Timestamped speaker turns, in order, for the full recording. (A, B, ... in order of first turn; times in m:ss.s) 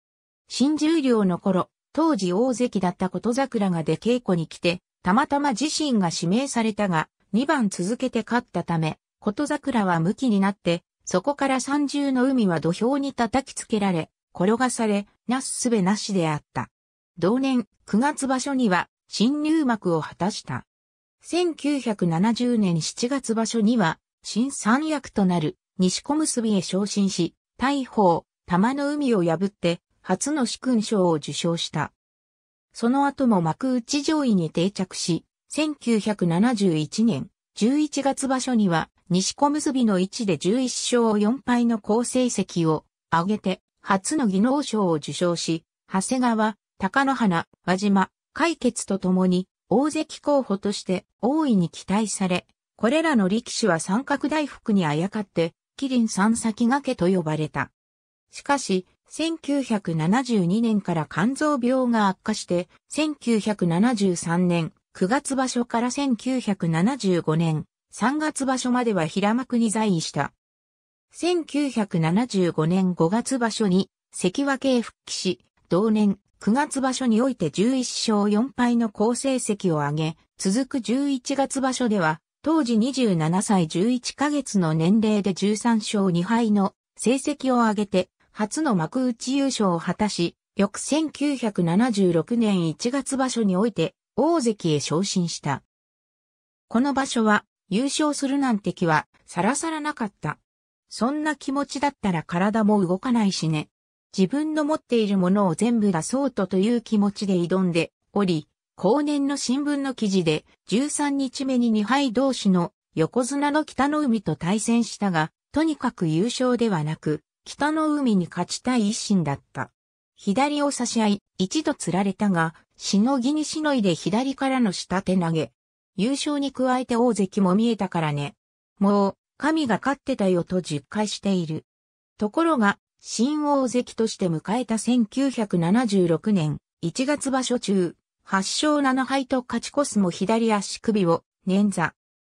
0:00.5-0:20.6 A
0:21.2-0:31.9 A
0:32.7-0:57.7 A
0:58.3-1:10.3 A
1:11.1-1:35.6 A
1:36.7-2:11.6 A
2:12.2-2:21.9 A